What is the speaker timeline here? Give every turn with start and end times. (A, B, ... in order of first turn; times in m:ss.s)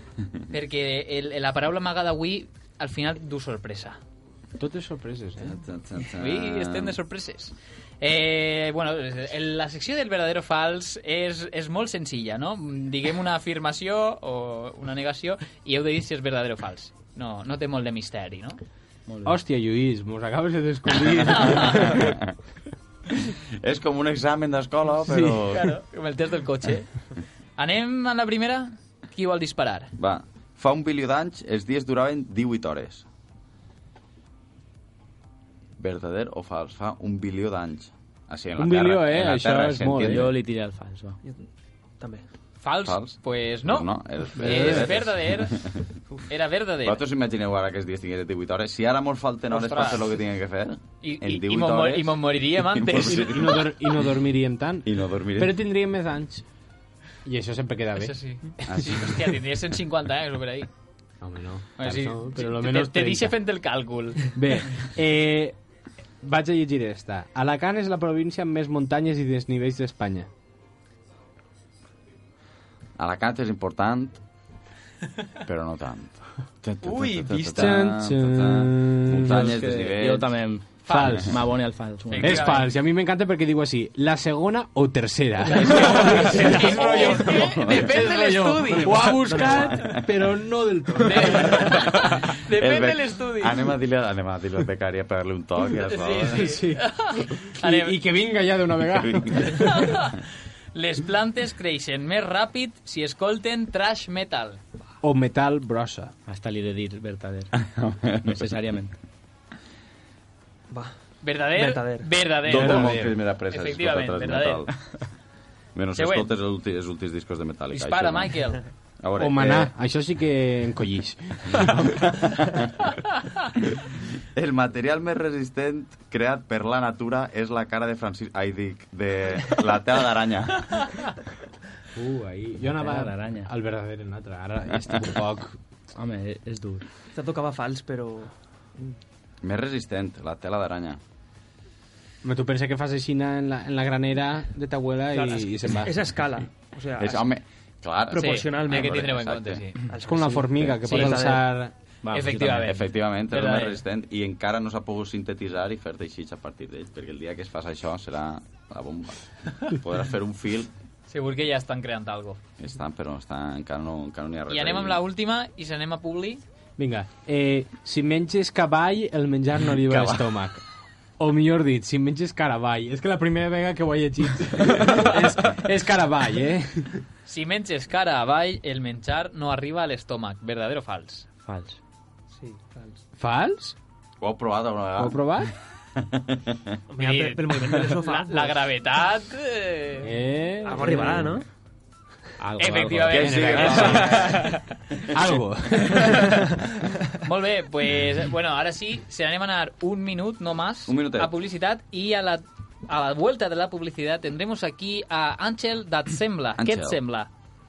0:00.5-0:04.0 A
0:04.6-0:05.6 B
0:05.4-0:07.0 C
0:06.1-0:18.6 A
0:19.1-0:19.4 D
0:19.2-0:22.1 B
0:21.2-0:22.1 A
0:21.9-0:22.3 C
0:23.6-0:25.7 C
0:25.0-0:25.4 B
0:25.5-0:27.0 A
0:27.6-0:29.9 A
0:30.0-0:33.0 C
0:35.8-0:40.3 C
0:38.6-0:40.3 B
0:40.1-0:41.2 D
0:42.6-0:45.6 A
0:42.8-0:45.8 C
0:44.3-0:45.1 B
0:46.3-0:47.0 A
0:46.8-0:54.1 C
0:49.5-0:50.1 A
0:51.0-0:53.6 A
0:53.0-0:56.4 B
0:54.8-0:55.6 C
0:57.2-0:58.8 B
0:58.0-1:00.7 A
0:58.6-0:59.1 C
1:01.2-1:03.4 B
1:01.8-1:04.3 A
1:04.3-1:05.6 B
1:06.2-1:10.3 B
1:13.0-1:14.2 C
1:15.4-1:20.3 C
1:16.8-1:17.6 A
1:17.3-1:19.6 B
1:19.4-1:22.6 D
1:20.8-1:21.4 B
1:20.8-1:21.2 A
1:22.1-1:22.7 A
1:22.2-1:31.6 B
1:25.5-1:29.6 A
1:27.2-1:28.0 C
1:28.8-1:30.1 C
1:31.0-1:33.7 A
1:31.7-1:36.6 C
1:35.8-1:37.9 A
1:36.3-1:39.9 B
1:39.0-1:39.6 C
1:39.4-1:40.2 A
1:40.7-1:44.6 A
1:45.0-1:46.1 B
1:46.2-1:47.5 D
1:47.5-1:48.3 C
1:48.2-1:48.9 D
1:51.2-1:54.6 A
1:51.6-1:52.1 E
1:52.4-1:54.7 C
1:52.5-1:53.2 B
1:55.7-1:58.4 C
1:55.9-1:56.3 A
1:57.7-1:58.6 A
1:59.0-1:59.7 C
1:59.2-2:02.1 B
2:01.5-2:02.6 C
2:04.3-2:10.9 C
2:11.9-2:15.6 B
2:12.7-2:13.5 D
2:15.9-2:16.8 D
2:17.1-2:18.9 E
2:19.4-2:21.0 C
2:22.2-2:26.1 B
2:25.1-2:27.2 E
2:27.0-2:29.6 C
2:28.1-2:29.0 E
2:28.2-2:29.9 A
2:29.9-2:31.4 E
2:30.0-2:31.7 B
2:30.8-2:31.2 A
2:32.0-2:32.8 D
2:32.1-2:33.8 A
2:32.6-2:40.7 C
2:41.1-2:42.4 A
2:42.6-2:45.0 C
2:44.5-2:46.4 A
2:46.8-2:50.6 B
2:49.8-2:50.2 C
2:51.2-2:57.0 B
2:57.2-3:01.3 A
3:01.4-3:01.8 D
3:02.3-3:03.0 E
3:03.2-3:03.8 B
3:04.2-3:05.5 C
3:05.0-3:05.5 B
3:06.0-3:06.7 C
3:06.9-3:08.6 E
3:07.0-3:10.1 A
3:10.0-3:11.4 B
3:10.6-3:11.4 E
3:12.4-3:13.2 D
3:12.6-3:14.6 A
3:13.1-3:14.4 C
3:13.1-3:14.5 B
3:15.1-3:16.5 B
3:16.0-3:16.2 A
3:17.2-3:27.3 A
3:20.9-3:21.3 C
3:26.6-3:27.0 C